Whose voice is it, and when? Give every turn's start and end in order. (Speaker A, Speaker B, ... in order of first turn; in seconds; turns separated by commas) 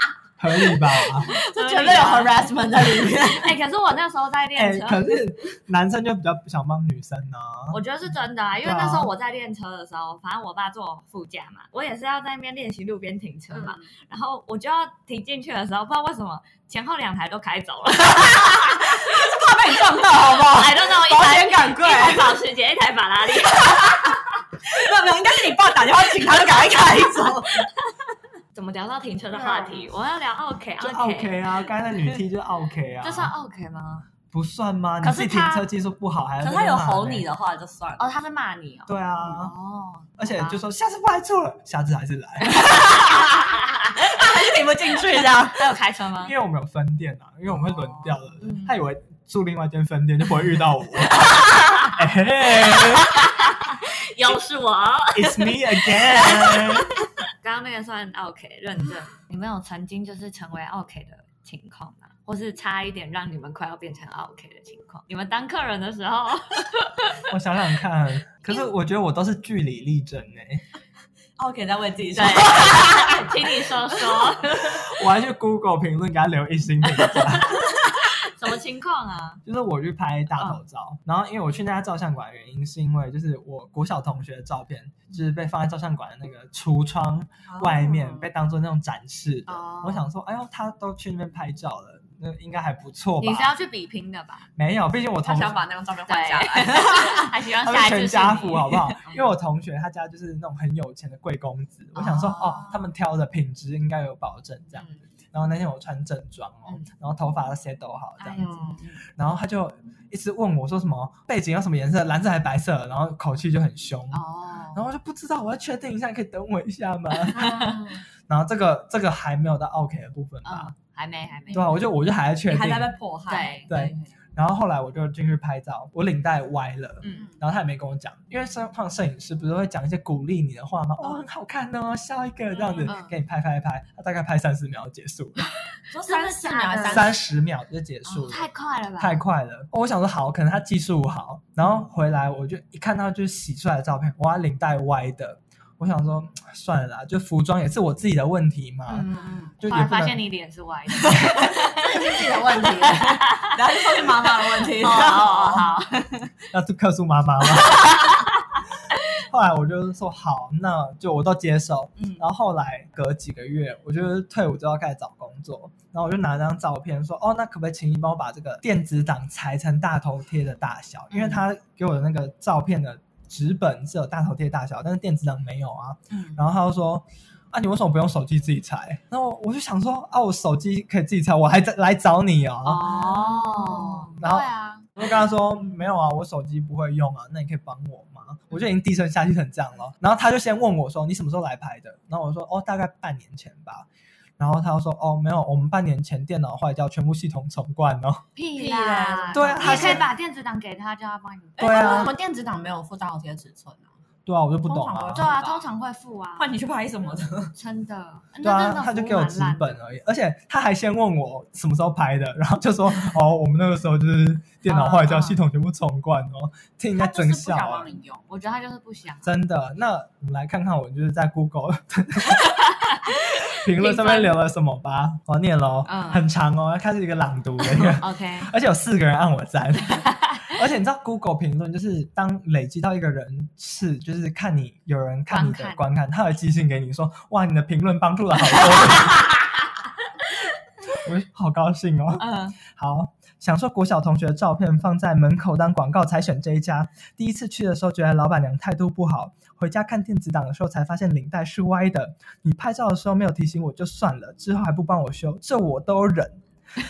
Speaker A: 0.4-1.4, Speaker B: 1.2-3.5, Speaker C: 1.3-2.5, Speaker C: 3.3-5.2, Speaker A: 4.5-7.8, Speaker C: 7.7-19.2, Speaker A: 8.6-9.1, Speaker B: 13.5-13.9, Speaker B: 18.4-22.4, Speaker C: 20.1-24.4, Speaker B: 23.5-27.7, Speaker C: 28.5-31.6, Speaker B: 29.4-29.6, Speaker A: 30.8-33.3, Speaker C: 33.0-34.1, Speaker A: 34.3-37.3, Speaker C: 35.0-35.7, Speaker B: 36.4-38.1, Speaker C: 38.0-40.6, Speaker A: 38.9-39.5, Speaker A: 40.2-42.6, Speaker B: 42.5-45.6, Speaker C: 45.4-46.4, Speaker A: 46.2-53.3, Speaker C: 47.8-48.8, Speaker C: 51.6-51.9, Speaker C: 52.8-67.3, Speaker A: 55.1-57.0, Speaker A: 67.3-70.6, Speaker B: 71.4-74.3, Speaker C: 72.2-75.0, Speaker A: 74.5-77.7, Speaker C: 77.0-79.4, Speaker A: 79.4-93.5, Speaker B: 87.5-88.3, Speaker C: 89.5-90.1, Speaker C: 93.2-94.5, Speaker A: 94.6-95.6, Speaker B: 95.2-97.3, Speaker C: 96.1-99.0, Speaker A: 97.6-108.6, Speaker B: 102.0-102.8, Speaker C: 108.2-108.8, Speaker B: 108.3-109.0, Speaker A: 109.1-120.7, Speaker C: 114.1-114.8, Speaker B: 117.3-118.0, Speaker C: 117.4-117.8, Speaker C: 120.5-121.8, Speaker A: 121.5-123.0, Speaker B: 122.5-124.1, Speaker C: 123.3-123.9, Speaker A: 123.7-135.5, Speaker C: 132.7-133.1, Speaker C: 135.5-137.2, Speaker B: 135.9-137.2, Speaker A: 136.8-150.2, Speaker C: 138.1-139.2, Speaker B: 148.9-149.5, Speaker C: 148.9-156.3, Speaker B: 150.9-155.7, Speaker A: 156.5-158.0, Speaker A: 159.2-182.9, Speaker B: 171.1-171.4, Speaker B: 176.1-176.4, Speaker C: 182.7-184.9, Speaker B: 182.8-184.2, Speaker A: 184.2-193.9, Speaker A: 194.4-198.2, Speaker C: 198.4-202.1, Speaker B: 198.5-200.1, Speaker A: 199.3-200.1, Speaker B: 201.6-203.9, Speaker A: 201.6-202.1, Speaker A: 204.3-205.3, Speaker B: 204.7-205.7, Speaker C: 205.1-206.5, Speaker B: 206.4-207.5, Speaker C: 207.6-209.8, Speaker A: 208.4-217.9, Speaker C: 214.7-215.4, Speaker B: 216.9-218.3, Speaker C: 218.3-219.3, Speaker A: 219.2-239.4, Speaker C: 222.4-224.4, Speaker C: 225.9-226.2, Speaker C: 227.8-228.5, Speaker C: 230.1-230.6, Speaker C: 235.3-235.8, Speaker A: 240.9-256.4, Speaker C: 242.2-242.6